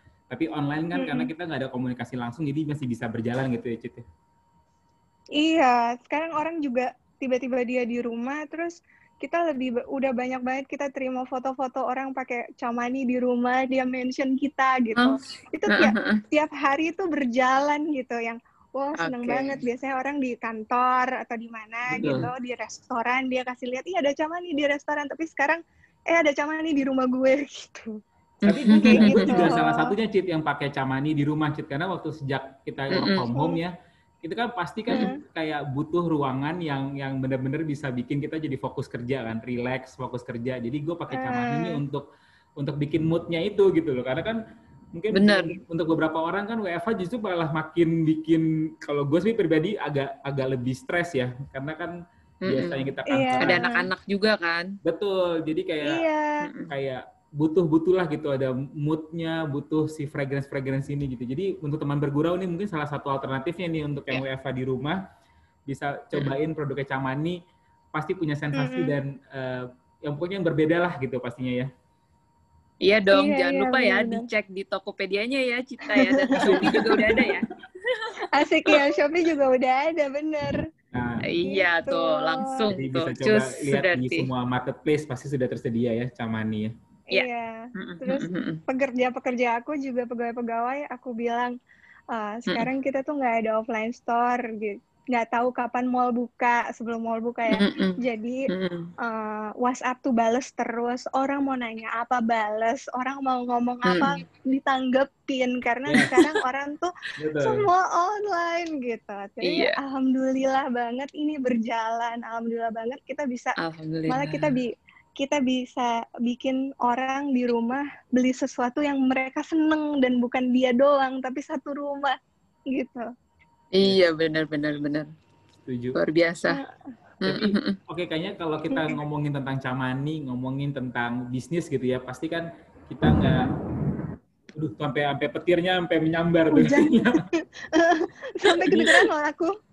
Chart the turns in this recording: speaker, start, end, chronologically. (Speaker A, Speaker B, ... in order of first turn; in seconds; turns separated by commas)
Speaker A: 0.3-4.0, Speaker B: 0.9-1.3, Speaker B: 5.4-28.0, Speaker C: 15.7-16.2, Speaker C: 19.0-19.6, Speaker A: 21.9-22.3, Speaker C: 28.4-29.5, Speaker A: 28.5-42.1, Speaker B: 28.8-29.9, Speaker C: 32.9-33.3, Speaker B: 41.1-41.8, Speaker A: 42.6-44.4, Speaker A: 45.0-53.6, Speaker C: 45.1-45.6, Speaker C: 52.4-52.9, Speaker B: 53.1-53.9, Speaker C: 53.4-54.8, Speaker A: 54.8-56.1, Speaker B: 55.8-56.4, Speaker C: 56.4-56.7, Speaker A: 56.7-65.0, Speaker A: 65.7-67.4, Speaker A: 67.9-71.7, Speaker B: 68.6-69.0, Speaker C: 72.8-78.1, Speaker B: 73.1-74.2, Speaker B: 76.0-76.8, Speaker A: 76.4-77.3, Speaker B: 78.3-80.7, Speaker A: 80.9-81.2, Speaker C: 81.2-84.3, Speaker B: 81.5-82.7, Speaker A: 82.7-86.7, Speaker B: 87.1-91.6, Speaker C: 87.1-88.6, Speaker B: 92.1-98.5, Speaker C: 92.5-92.7, Speaker C: 97.5-98.9, Speaker B: 99.0-113.6, Speaker C: 103.9-104.2, Speaker A: 105.9-106.2, Speaker A: 107.2-107.7, Speaker C: 109.4-109.8, Speaker C: 113.6-114.6, Speaker B: 114.1-122.2, Speaker B: 122.7-123.1, Speaker C: 123.7-125.1, Speaker A: 125.7-126.0, Speaker C: 125.9-126.6, Speaker C: 127.2-127.8, Speaker A: 127.2-133.6, Speaker B: 128.7-129.0, Speaker A: 134.5-137.2, Speaker B: 136.5-139.6, Speaker C: 138.7-139.0